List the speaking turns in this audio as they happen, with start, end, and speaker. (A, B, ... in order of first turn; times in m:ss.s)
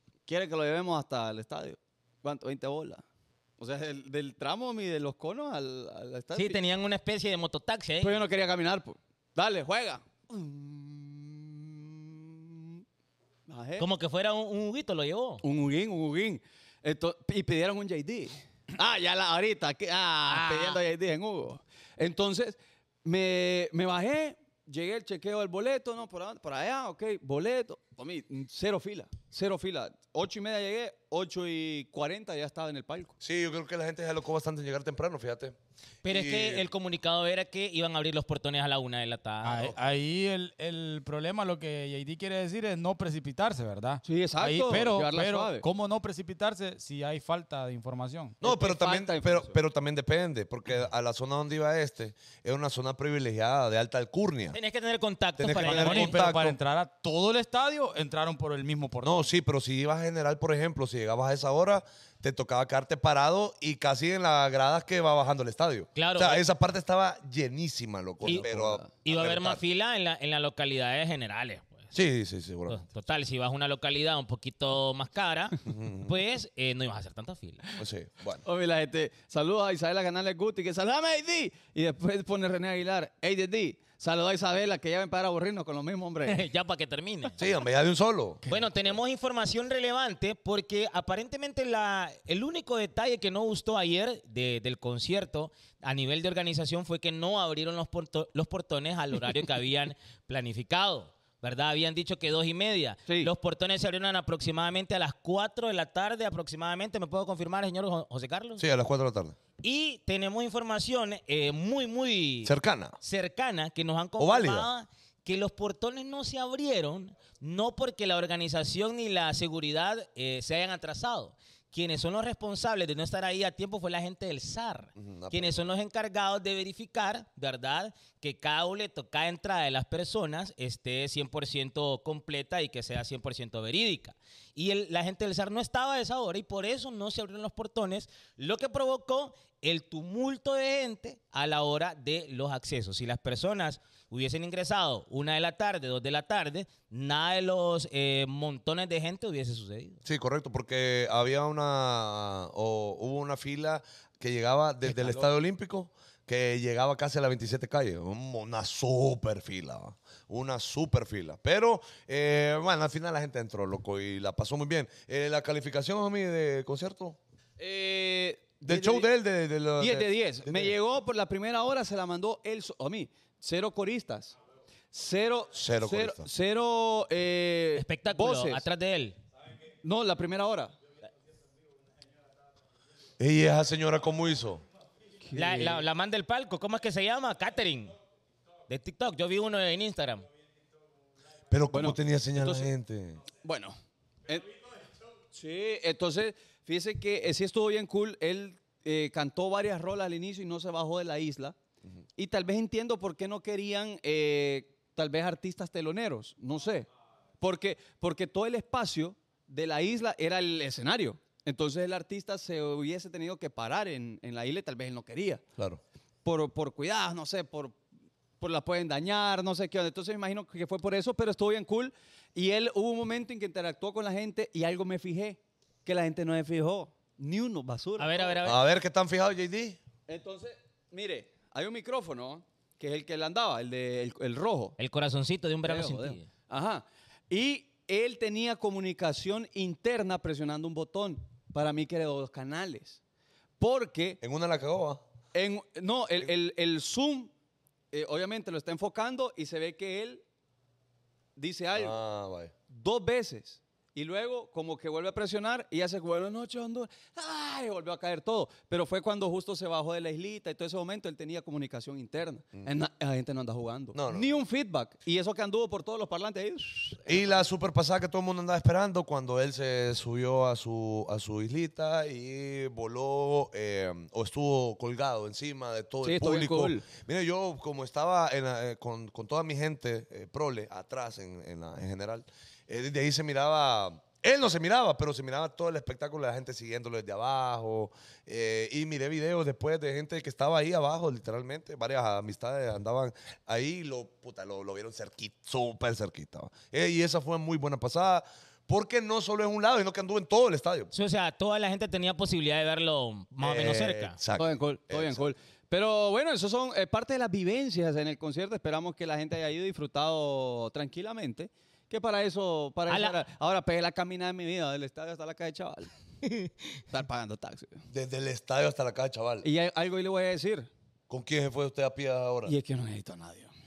0:00.2-0:03.0 A
0:03.6-0:06.6 A
0:06.3-0:08.2 B
0:08.0-0:12.8 A
0:13.5-0:13.8 A
0:13.8-0:15.4 B
0:15.4-0:33.2 A
0:20.3-0:20.8 B
0:33.2-0:36.7 C
0:36.0-0:39.7 B
0:39.4-0:48.4 D
0:44.0-0:45.6 A
0:48.4-0:54.6 C
0:48.4-0:49.6 A
0:54.5-0:56.2 B
0:55.4-0:56.6 C
0:55.6-0:59.2 D
0:59.0-1:09.6 C
1:06.0-1:06.4 B
1:08.2-1:08.9 A
1:09.0-1:11.9 B
1:11.9-1:12.8 C
1:12.7-1:17.6 B
1:15.6-1:16.1 C
1:17.8-1:18.4 C
1:18.4-1:26.4 A
1:26.2-1:27.4 B
1:27.4-1:28.4 C
1:28.5-1:48.6 B
1:48.6-1:49.4 C
1:49.6-2:30.0 B
1:52.4-1:53.0 C
1:54.2-1:54.7 C
2:05.0-2:05.7 C
2:30.0-2:47.2 C
2:34.9-2:35.2 A
2:47.6-2:49.1 A
2:48.6-2:50.7 C
2:49.8-2:54.3 A
2:54.9-2:58.6 A
2:55.5-2:56.3 C
2:57.8-2:59.2 B
2:59.8-3:00.7 A
3:03.2-3:04.6 C
3:05.2-3:05.8 A
3:05.3-3:07.9 B
3:08.7-3:10.3 B
3:11.5-3:13.2 C
3:11.7-3:12.7 A
3:13.4-3:14.5 A
3:15.3-3:21.6 A
3:22.2-3:26.9 A
3:27.4-3:35.4 A
3:36.2-3:37.8 A
3:38.4-3:48.4 A
3:48.0-3:48.6 B
3:48.4-3:49.8 C
3:50.1-3:54.8 A
3:54.8-3:56.3 B
3:55.6-4:03.0 A
4:03.6-4:04.2 A
4:04.2-4:05.0 C
4:05.3-4:07.3 A
4:07.9-4:10.2 A
4:11.4-4:12.0 A
4:11.7-4:12.5 C
4:12.7-4:27.3 A
4:23.9-4:24.4 C
4:27.0-5:00.9 C
4:36.0-4:36.8 A
5:00.9-5:04.2 B
5:03.4-5:05.2 C
5:04.4-5:15.9 A
5:12.9-5:13.2 B
5:16.2-5:16.5 B
5:16.9-5:17.8 A
5:17.9-5:19.5 C
5:19.4-5:20.7 A
5:21.1-5:22.5 C
5:22.4-5:23.5 A